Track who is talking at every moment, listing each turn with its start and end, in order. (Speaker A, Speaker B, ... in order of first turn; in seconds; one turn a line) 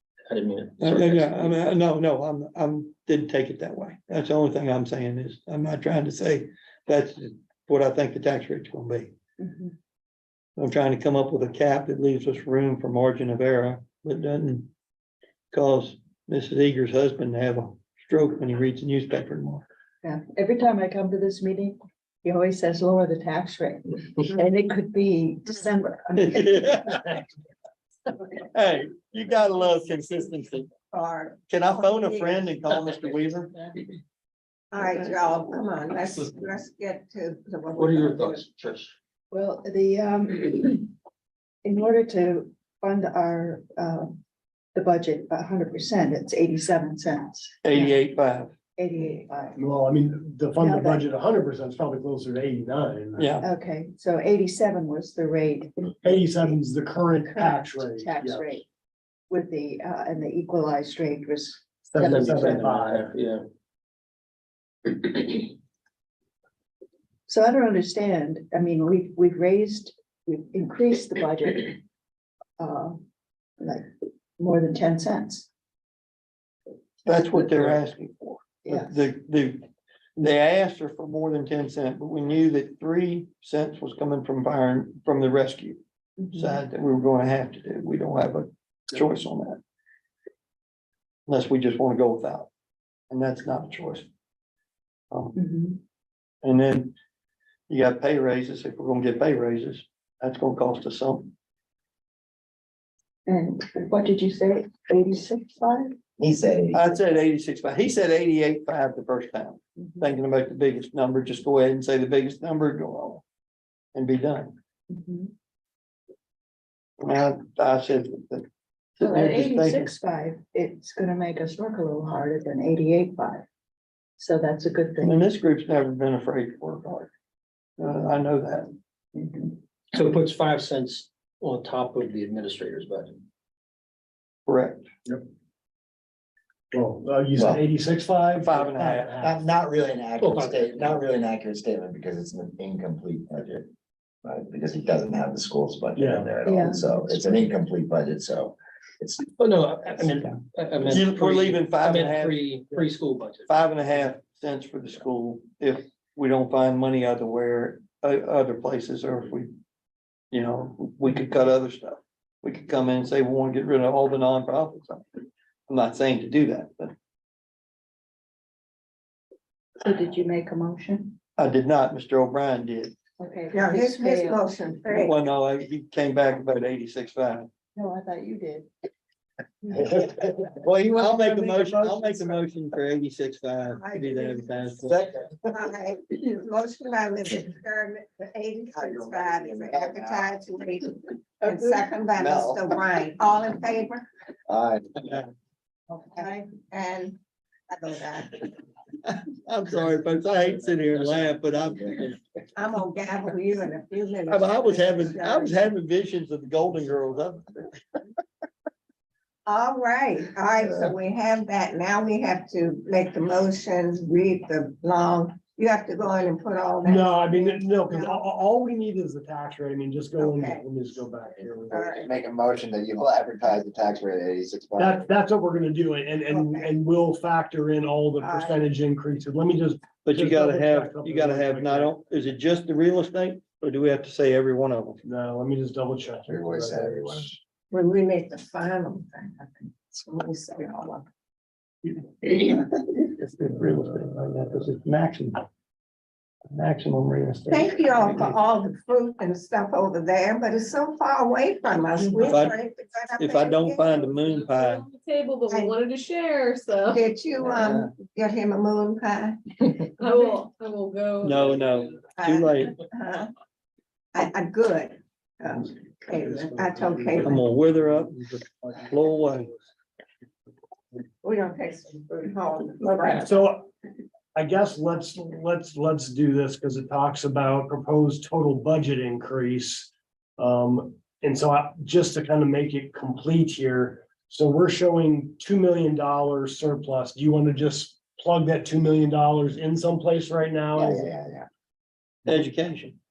Speaker A: 0.3-1.6
Speaker B: 0.8-9.2
Speaker C: 9.4-9.7
Speaker B: 10.6-14.7
Speaker B: 15.5-19.6
Speaker C: 20.0-26.8
Speaker B: 26.2-27.2
Speaker B: 28.5-30.7
Speaker D: 30.9-32.5
Speaker B: 31.5-33.6
Speaker D: 34.7-38.4
Speaker A: 37.8-38.9
Speaker C: 39.3-40.9
Speaker C: 41.6-44.2
Speaker C: 44.8-48.0
Speaker B: 47.6-48.5
Speaker C: 48.8-49.6
Speaker E: 49.6-53.3
Speaker C: 50.6-51.1
Speaker B: 53.2-53.5
Speaker C: 53.4-56.2
Speaker E: 56.0-58.6
Speaker C: 57.2-58.7
Speaker C: 59.3-62.6
Speaker E: 61.9-63.1
Speaker A: 62.1-63.4
Speaker C: 67.3-71.8
Speaker C: 72.6-73.0
Speaker C: 73.6-75.5
Speaker B: 77.1-79.7
Speaker C: 78.7-79.1
Speaker B: 80.2-85.8
Speaker C: 86.2-86.6
Speaker B: 86.3-89.6
Speaker B: 91.3-92.5
Speaker B: 93.1-94.1
Speaker B: 95.1-95.4
Speaker C: 95.3-95.8
Speaker B: 96.4-97.0
Speaker B: 97.7-101.3
Speaker C: 103.3-106.0
Speaker F: 106.2-107.0
Speaker B: 106.7-113.2
Speaker B: 113.9-114.5
Speaker C: 114.9-115.3
Speaker B: 117.0-119.9
Speaker C: 119.0-123.5
Speaker C: 124.2-125.2
Speaker B: 125.0-127.1
Speaker B: 127.8-128.7
Speaker C: 129.2-129.5
Speaker A: 129.9-133.2
Speaker B: 134.5-134.8
Speaker E: 136.7-139.5
Speaker F: 137.4-137.6
Speaker B: 138.4-139.2
Speaker F: 139.2-143.7
Speaker A: 140.2-140.7
Speaker F: 144.2-149.3
Speaker E: 146.0-146.3
Speaker C: 146.4-147.2
Speaker A: 149.4-153.5
Speaker B: 150.8-152.5
Speaker B: 153.5-159.5
Speaker B: 160.3-165.0
Speaker B: 165.7-166.9
Speaker C: 169.8-171.2
Speaker B: 171.4-173.0
Speaker C: 173.2-174.4
Speaker D: 173.5-175.1
Speaker B: 174.9-177.5
Speaker C: 177.8-178.7
Speaker C: 179.6-180.0
Speaker F: 179.7-182.3
Speaker B: 180.8-184.9
Speaker D: 184.1-184.3
Speaker F: 184.8-185.5
Speaker D: 185.5-194.1
Speaker F: 188.7-190.3
Speaker F: 192.2-192.7
Speaker F: 194.5-195.1
Speaker C: 195.9-196.6
Speaker D: 196.2-197.2
Speaker D: 197.7-198.5
Speaker B: 199.1-202.2
Speaker D: 202.6-205.7
Speaker B: 204.3-207.6
Speaker D: 209.5-218.3
Speaker E: 216.8-221.9
Speaker D: 220.2-220.7
Speaker D: 221.7-222.1
Speaker F: 221.7-225.1
Speaker E: 224.8-231.9
Speaker D: 226.3-226.7
Speaker D: 228.2-228.6
Speaker B: 230.0-235.0
Speaker E: 235.0-237.4
Speaker F: 236.3-237.3
Speaker D: 237.7-241.1
Speaker B: 242.4-245.4
Speaker B: 246.5-248.4
Speaker D: 247.5-254.1
Speaker B: 252.2-252.6
Speaker B: 253.2-254.8
Speaker G: 254.3-257.0
Speaker D: 255.5-255.8
Speaker D: 256.9-259.8
Speaker B: 257.4-257.9
Speaker G: 260.0-262.0
Speaker B: 261.2-262.7
Speaker D: 262.1-263.3
Speaker D: 264.1-267.4
Speaker E: 266.8-267.4
Speaker B: 267.2-269.5
Speaker D: 271.2-273.4
Speaker E: 273.2-273.7
Speaker E: 274.4-291.1
Speaker F: 290.8-291.5
Speaker B: 292.3-293.0